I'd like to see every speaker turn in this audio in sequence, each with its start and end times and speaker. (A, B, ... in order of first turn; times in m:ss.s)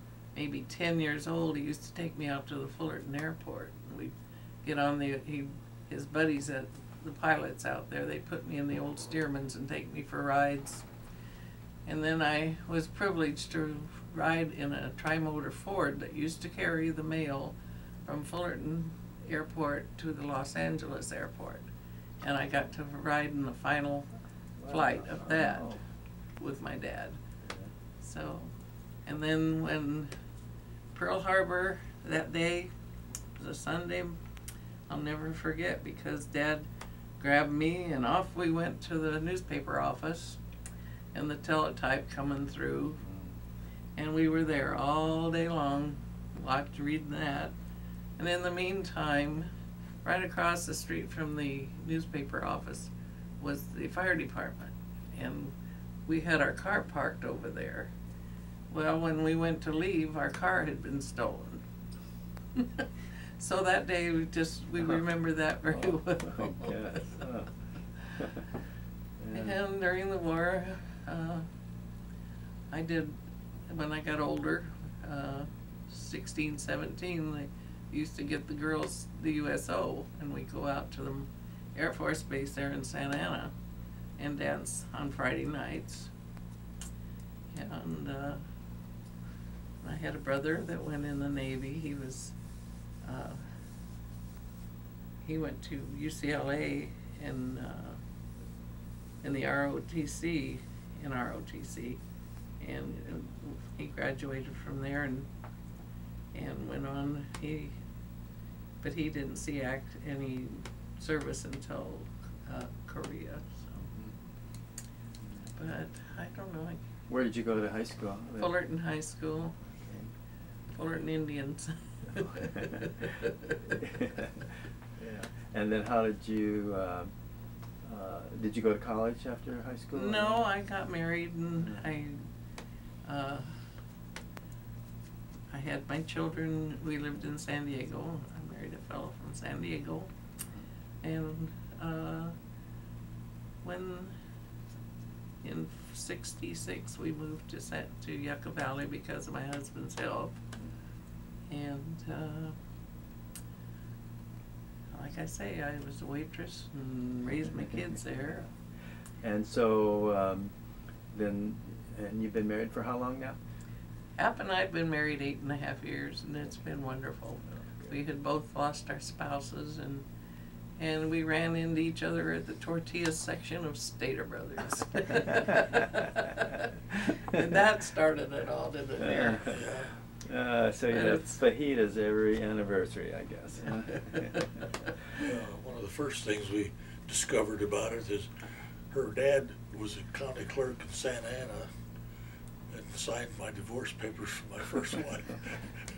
0:00.4-0:10.8 A
0:11.9-0:17.6 A
0:18.1-0:21.7 A
0:22.2-0:24.1 A
0:24.6-0:25.8 B
0:24.7-0:25.8 A
0:26.4-0:27.2 A
0:27.4-0:27.7 B
0:28.0-0:28.5 A
0:29.1-0:30.1 A
0:30.9-0:32.7 A
0:33.4-0:34.2 A
0:34.9-0:36.7 A
0:37.2-0:40.4 A
0:41.1-0:43.0 A
0:43.0-0:43.3 B
0:44.0-0:47.5 A
0:48.2-0:49.5 A
0:50.0-0:55.5 A
0:56.1-0:57.9 A
0:58.7-1:01.6 A
1:02.6-1:07.1 A
1:06.2-1:07.5 B
1:08.2-1:08.5 B
1:09.2-1:09.6 B
1:09.3-1:11.5 A
1:12.7-1:13.2 A
1:13.7-1:23.5 A
1:24.2-1:26.1 A
1:27.5-1:28.4 A
1:29.8-1:32.3 A
1:33.0-1:33.4 A
1:35.2-1:38.0 A
1:39.2-1:42.0 A
1:42.6-1:45.3 A
1:46.3-1:47.7 A
1:48.8-1:53.9 A
1:55.6-1:56.8 A
1:57.1-1:58.5 B
1:58.4-1:59.6 A
2:00.7-2:03.2 A
2:02.2-2:03.2 B
2:03.7-2:04.4 B
2:05.0-2:07.1 B
2:07.8-2:10.5 B
2:09.9-2:12.2 A
2:13.0-2:13.6 A
2:15.5-2:20.1 A
2:21.0-2:22.4 A
2:23.6-2:24.2 A
2:25.4-2:30.4 A
2:31.5-2:32.6 A
2:34.9-2:38.5 A
2:39.2-2:40.5 B
2:41.1-2:43.4 B
2:44.2-2:50.0 A
2:50.8-2:59.6 A
2:59.0-2:59.6 B
2:59.4-2:59.9 C
3:00.2-3:04.6 B
3:00.9-3:01.4 A
3:03.8-3:04.3 A
3:05.2-3:08.3 C
3:08.9-3:11.7 C
3:12.7-3:15.8 C